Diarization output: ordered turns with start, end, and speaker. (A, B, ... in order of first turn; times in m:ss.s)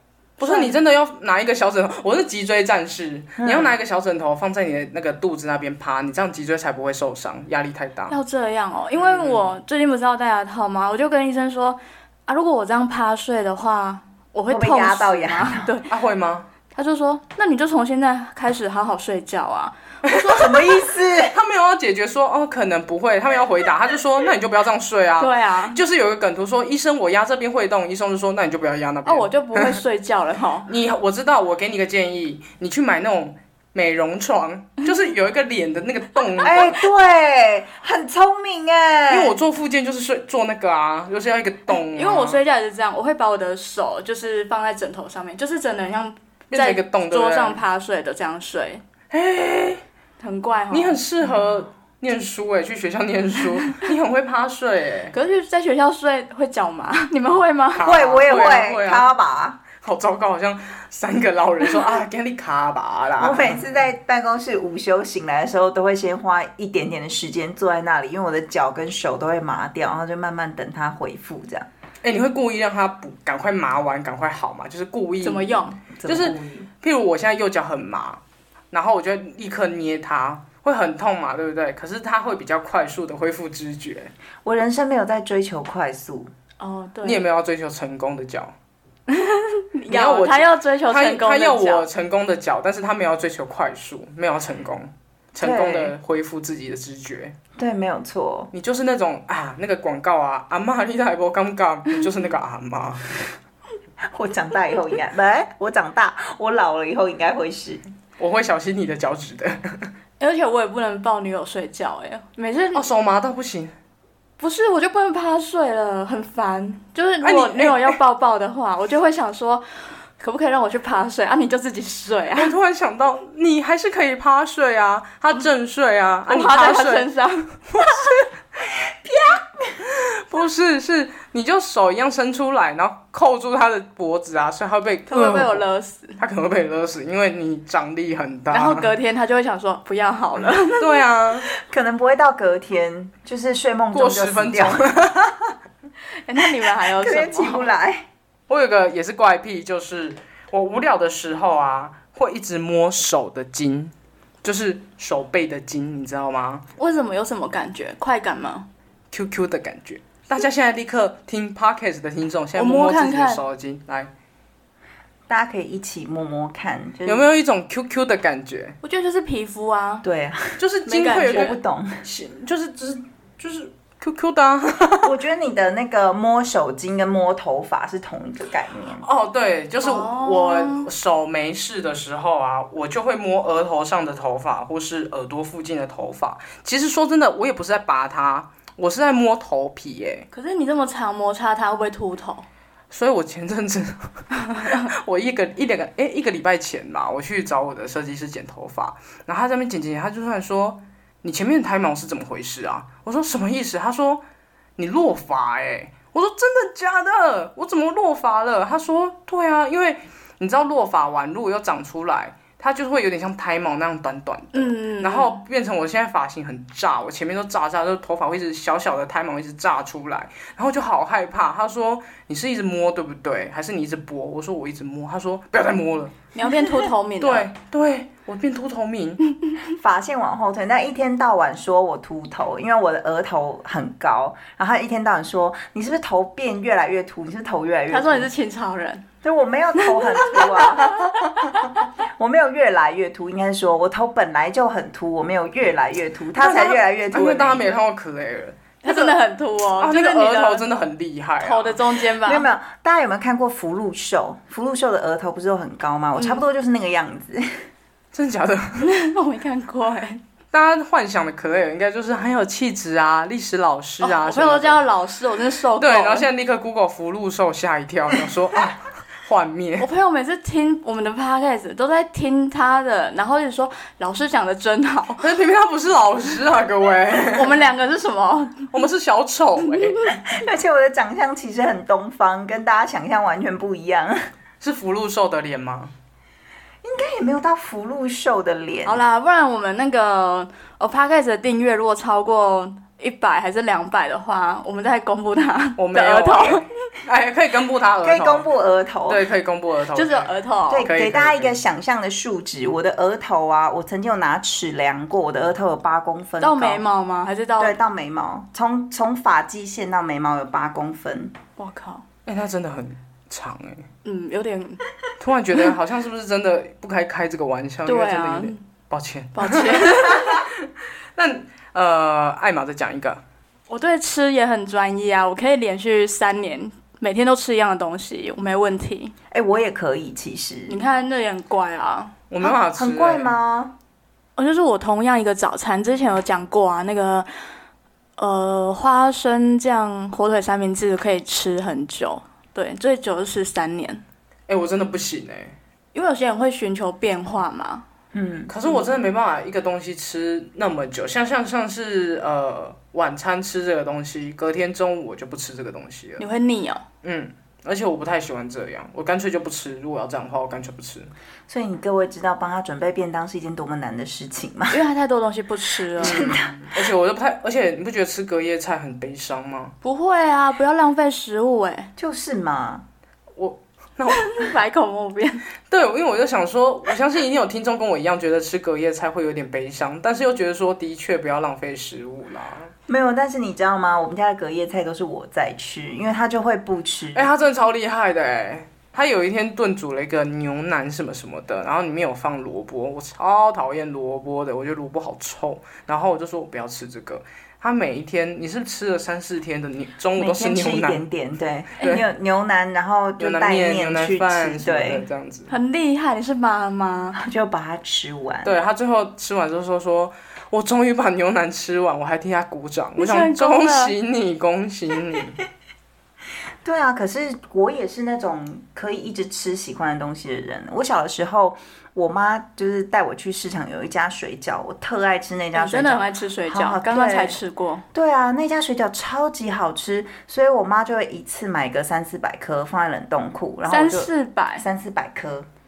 0:00.4-0:00.8 A
0:00.4-0:08.2 B
0:03.4-0:03.8 C
0:08.1-0:15.9 A
0:09.0-0:09.5 B
0:14.5-0:15.7 C
0:15.9-0:16.5 B
0:16.7-0:20.7 A
0:20.1-0:20.6 B
0:20.3-0:21.4 C
0:21.2-0:29.8 B
0:25.2-0:25.8 A
0:29.0-0:30.7 A
0:30.7-0:36.8 B
0:36.4-0:39.4 C
0:39.1-0:42.4 B
0:41.9-0:48.8 A
0:46.5-0:47.6 B
0:49.1-0:49.8 B
0:50.2-0:51.0 A
0:50.7-0:55.1 B
0:55.1-0:57.9 A
0:57.8-0:59.1 B
0:57.8-0:59.6 C
0:59.7-1:03.7 B
1:03.2-1:11.7 C
1:12.0-1:18.2 B
1:15.2-1:15.8 A
1:16.0-1:16.7 C
1:18.7-1:24.1 B
1:24.4-1:26.3 C
1:26.6-1:27.2 A
1:27.0-1:28.5 B
1:29.1-1:31.9 A
1:29.9-1:37.3 B
1:35.4-1:36.0 C
1:37.6-1:38.5 C
1:38.5-1:43.3 B
1:44.1-1:47.8 C
1:48.2-1:49.9 B
1:50.2-1:52.9 A
1:52.7-1:53.7 B
1:54.4-1:59.6 A
1:57.2-1:58.0 B
2:00.2-2:02.5 A
2:02.4-2:07.1 B
2:06.3-2:07.6 A
2:07.7-2:08.2 B
2:08.6-2:09.8 C
2:09.8-2:15.6 B
2:15.1-2:16.2 A
2:16.2-2:18.9 B
2:18.5-2:21.0 A
2:20.7-2:21.5 B
2:21.6-2:24.9 C
2:23.9-2:25.4 B
2:26.3-2:27.7 A
2:26.8-2:28.1 C
2:28.5-2:33.9 B
2:34.4-2:36.6 B
2:36.8-2:38.7 A
2:39.1-2:44.1 B
2:42.6-2:43.4 A
2:45.3-2:47.3 C
2:47.1-2:48.8 B
2:48.8-2:50.1 A
2:50.0-2:50.6 C
2:50.6-2:55.2 B
2:50.9-2:51.6 A
2:51.2-2:52.0 C
2:55.0-2:59.1 C
2:59.0-3:10.3 B
2:59.8-3:00.9 A
3:10.3-3:12.5 A
3:12.9-3:14.1 B
3:14.5-3:14.8 A
3:14.7-3:24.2 B
3:24.8-3:46.2 B
3:34.5-3:35.4 A
3:46.3-3:47.5 A
3:47.2-3:49.2 B
3:49.8-3:58.3 C
3:57.9-3:59.0 A
3:59.2-4:07.7 C
3:59.8-4:01.8 A
4:06.4-4:09.2 B
4:08.8-4:10.6 A
4:09.8-4:11.8 B
4:11.4-4:12.5 A
4:12.2-4:17.7 C
4:16.2-4:16.4 A
4:18.1-4:18.9 B
4:18.8-4:20.2 A
4:20.5-4:24.8 B
4:24.0-4:26.3 A
4:25.7-4:29.9 B
4:29.8-4:35.2 A
4:35.2-4:37.6 B
4:37.3-4:38.7 A
4:38.7-4:40.0 B
4:39.7-4:40.2 A
4:40.3-4:44.2 C
4:44.6-4:45.9 B
4:46.8-4:49.0 C
4:48.8-4:56.7 A
4:55.8-4:58.5 B
4:58.0-4:59.3 C
4:59.1-5:00.3 B
4:59.9-5:00.9 A
5:00.7-5:06.8 C
5:00.8-5:01.6 B
5:06.4-5:07.8 A
5:07.6-5:11.3 C
5:11.6-5:12.0 A
5:12.3-5:13.9 B
5:14.0-5:14.8 A
5:15.2-5:23.2 B
5:17.8-5:18.6 A
5:19.4-5:20.4 A
5:23.7-5:29.1 A
5:29.3-5:30.8 C
5:30.7-5:32.2 A
5:32.3-5:33.3 B
5:32.4-5:33.7 C
5:34.4-5:37.3 A
5:38.2-5:44.0 A
5:44.5-5:45.6 B
5:45.9-5:47.8 A
5:48.1-5:48.5 C
5:48.5-5:56.2 B
5:56.2-5:56.8 A
5:57.0-6:01.1 B
6:01.5-6:04.8 C
6:04.7-6:06.3 A
6:06.0-6:06.6 C
6:06.0-6:09.8 B
6:09.8-6:11.9 A
6:12.0-6:12.8 C
6:13.4-6:14.4 B
6:14.1-6:15.4 A
6:15.7-6:22.7 B
6:22.9-6:27.3 C
6:27.1-6:41.0 B
6:40.2-6:45.1 C
6:41.8-6:42.0 B
6:43.2-6:45.5 B
6:45.5-6:47.2 A
6:47.2-6:48.6 C
6:48.4-6:55.4 B
6:53.0-6:53.9 A
6:56.6-7:07.4 C
7:05.6-7:07.8 A
7:07.9-7:15.5 C
7:13.7-7:14.7 A